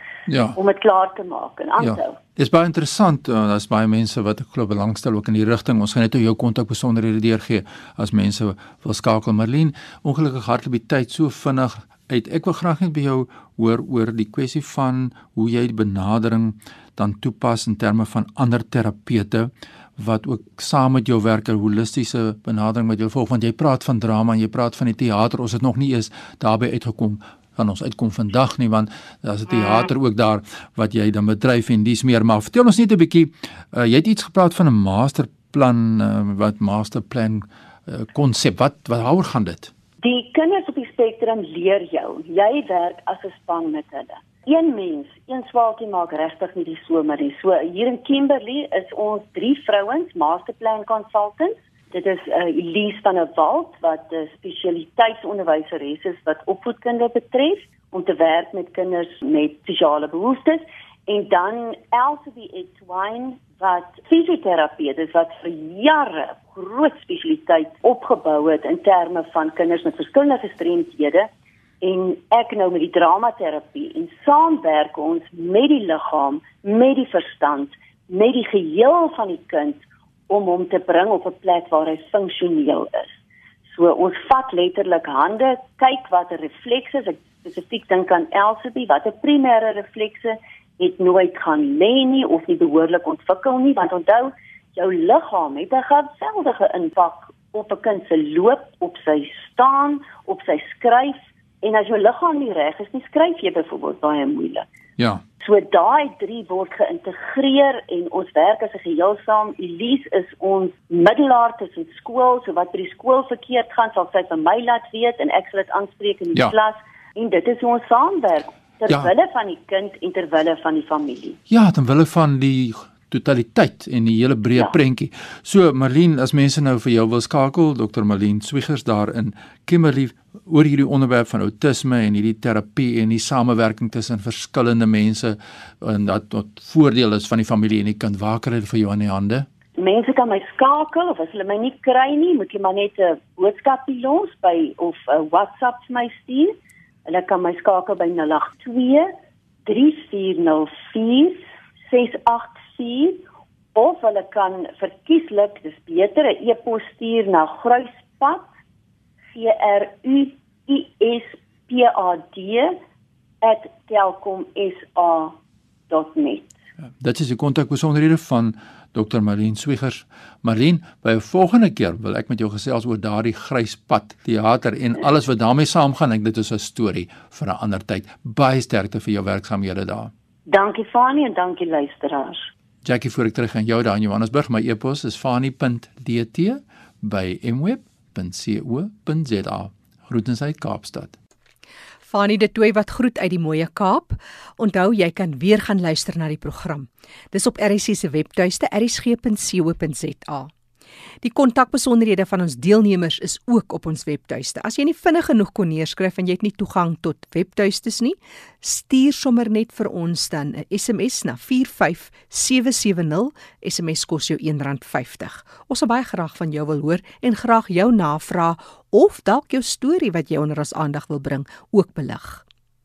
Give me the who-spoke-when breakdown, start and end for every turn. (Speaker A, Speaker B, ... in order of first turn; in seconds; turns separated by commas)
Speaker A: 0.3-0.6, Speaker B: 0.6-2.2, Speaker A: 1.8-39.7, Speaker B: 40.0-71.3, Speaker B: 71.8-104.6, Speaker B: 105.4-121.4, Speaker A: 121.5-139.5, Speaker B: 139.8-146.5, Speaker B: 147.1-149.1, Speaker B: 149.7-153.2, Speaker B: 153.7-158.5, Speaker B: 159.3-162.8, Speaker B: 163.4-165.3, Speaker B: 165.9-166.5, Speaker A: 167.0-180.1, Speaker B: 180.5-182.5, Speaker A: 182.8-191.1, Speaker C: 192.1-200.5, Speaker C: 201.2-222.4